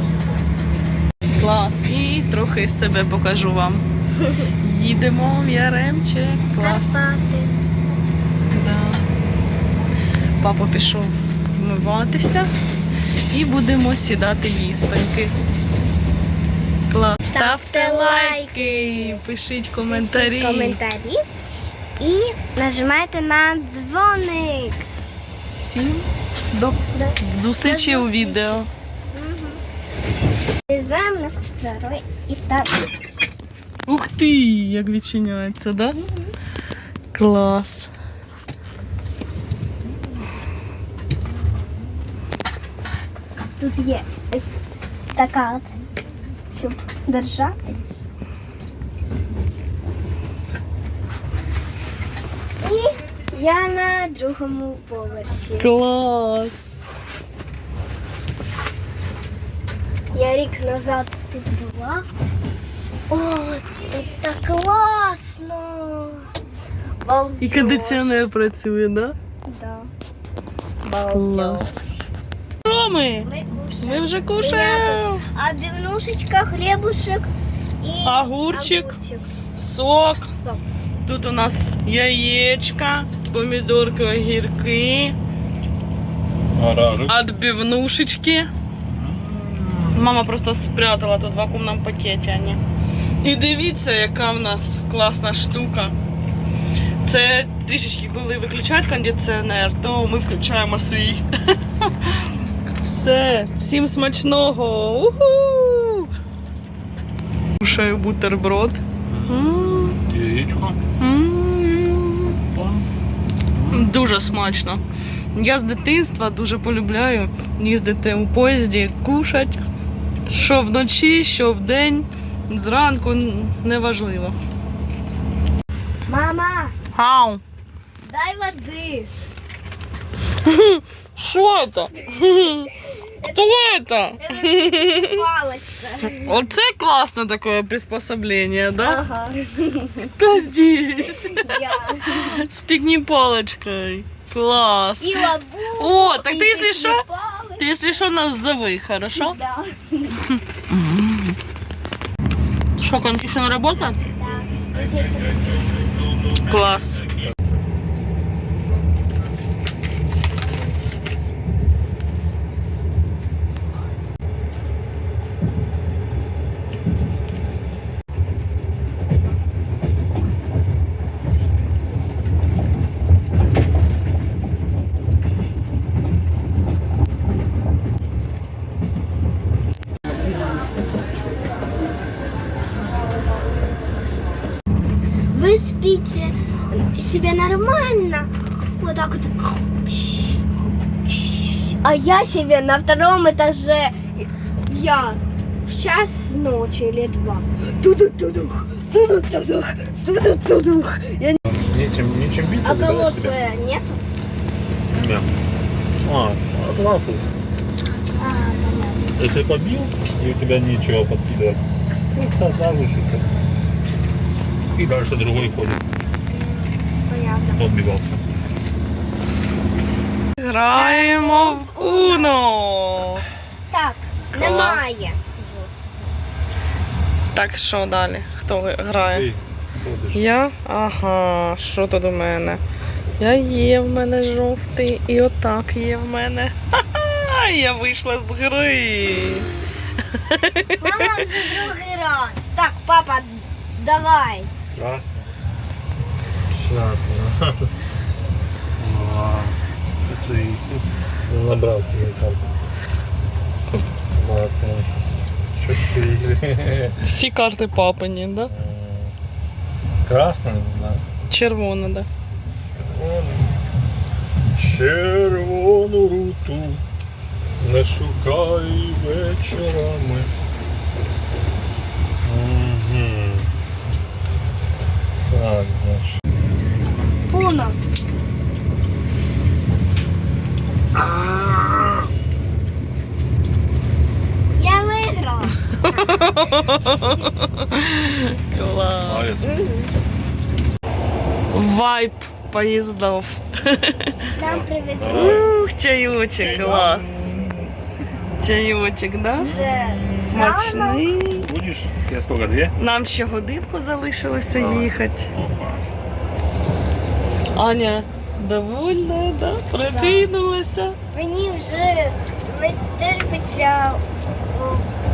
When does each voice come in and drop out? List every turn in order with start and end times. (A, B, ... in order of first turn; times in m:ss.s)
0:01.4-0:03.8 A
0:04.6-0:07.0 A
0:06.6-0:07.6 B
0:08.5-0:09.0 A
0:10.4-0:12.5 A
0:13.3-0:15.3 A
0:16.9-0:20.8 A
0:17.3-0:19.2 B
0:19.8-0:21.2 B
0:22.0-0:24.8 B
0:25.6-0:28.7 A
0:26.9-0:29.6 B
0:30.7-0:32.9 B
0:33.9-0:36.0 A
0:37.1-0:37.9 A
0:43.6-0:44.5 B
0:45.1-0:45.7 B
0:46.5-0:47.8 B
0:52.6-0:55.7 B
0:55.6-0:56.7 A
1:00.1-1:02.0 B
1:03.1-1:06.3 B
1:07.0-1:08.2 B
1:07.4-1:09.2 A
1:09.5-1:09.9 B
1:10.8-1:11.8 B
1:11.1-1:11.6 A
1:12.7-1:15.2 A
1:13.2-1:17.3 B
1:17.8-1:19.3 B
1:18.0-1:19.0 A
1:19.6-1:20.3 A
1:20.3-1:20.6 B
1:21.1-1:25.2 A
1:26.5-1:27.1 C
1:27.1-1:28.5 A
1:28.9-1:30.1 C
1:29.9-1:32.6 A
1:33.2-1:35.9 A
1:37.0-1:41.2 A
1:41.8-1:46.1 A
1:47.6-1:50.0 A
1:49.1-1:49.5 C
1:50.0-1:50.8 C
1:51.0-1:52.4 A
1:52.5-1:52.8 C
1:53.5-1:54.0 C
1:53.7-1:54.8 A
1:55.3-1:59.6 A
2:00.3-2:04.4 A
2:06.1-2:06.8 B
2:06.9-2:07.4 A
2:08.0-2:09.1 B
2:10.4-2:12.7 A
2:13.2-2:15.2 A
2:14.2-2:16.4 B
2:16.1-2:19.0 A
2:18.8-2:20.1 B
2:20.1-2:27.0 A
2:21.1-2:22.4 B
2:25.0-2:27.7 B
2:27.6-2:29.4 A
2:29.1-2:30.2 B
2:30.3-2:31.4 A
2:32.8-2:34.0 A
2:34.0-2:35.6 B
2:36.3-2:37.1 A
3:05.3-3:10.4 B
3:11.1-3:21.4 B
3:21.5-3:23.4 C
3:22.6-3:24.0 B
3:24.9-3:25.3 C
3:26.0-3:27.3 C
3:28.2-3:29.2 B
3:29.2-3:31.6 C
3:32.1-3:33.3 C
3:34.7-3:35.8 C
3:36.3-3:37.6 B
3:37.6-3:38.2 C
3:40.4-3:43.2 A
3:40.7-3:42.4 B
3:43.7-3:45.9 B
3:44.3-3:45.0 A
3:47.3-3:49.3 A
3:49.0-3:50.4 C
3:50.1-3:52.6 A
3:53.2-3:59.5 A
4:00.1-4:01.3 A
4:00.8-4:04.5 B
4:04.7-4:05.3 C
4:06.5-4:07.8 C
4:08.8-4:12.4 C
4:14.1-4:14.9 C
4:15.6-4:17.0 C
4:17.0-4:18.5 A
4:18.5-4:19.2 C
4:20.0-4:21.0 C
4:21.3-4:22.1 A
4:22.8-4:23.6 C
4:24.5-4:26.8 C
4:27.6-4:30.3 C
4:32.2-4:33.5 C
4:35.2-4:36.1 C
4:37.3-4:37.8 B
4:41.0-4:42.0 C
4:44.6-4:45.6 B
4:45.8-4:49.5 A
4:49.0-4:49.6 C
4:49.4-4:49.9 B
4:51.5-4:54.2 A
4:54.4-4:55.5 B
4:54.4-4:55.5 C
4:55.0-4:57.4 A
4:56.4-4:57.7 C
4:56.4-4:56.8 B
4:58.4-4:59.6 A
4:59.4-5:01.1 B
4:59.5-5:00.5 C
5:00.2-5:01.5 A
5:01.3-5:02.7 C
5:02.8-5:05.3 A
5:04.5-5:05.8 C
5:07.5-5:11.0 A
5:09.8-5:10.3 B
5:11.1-5:14.9 B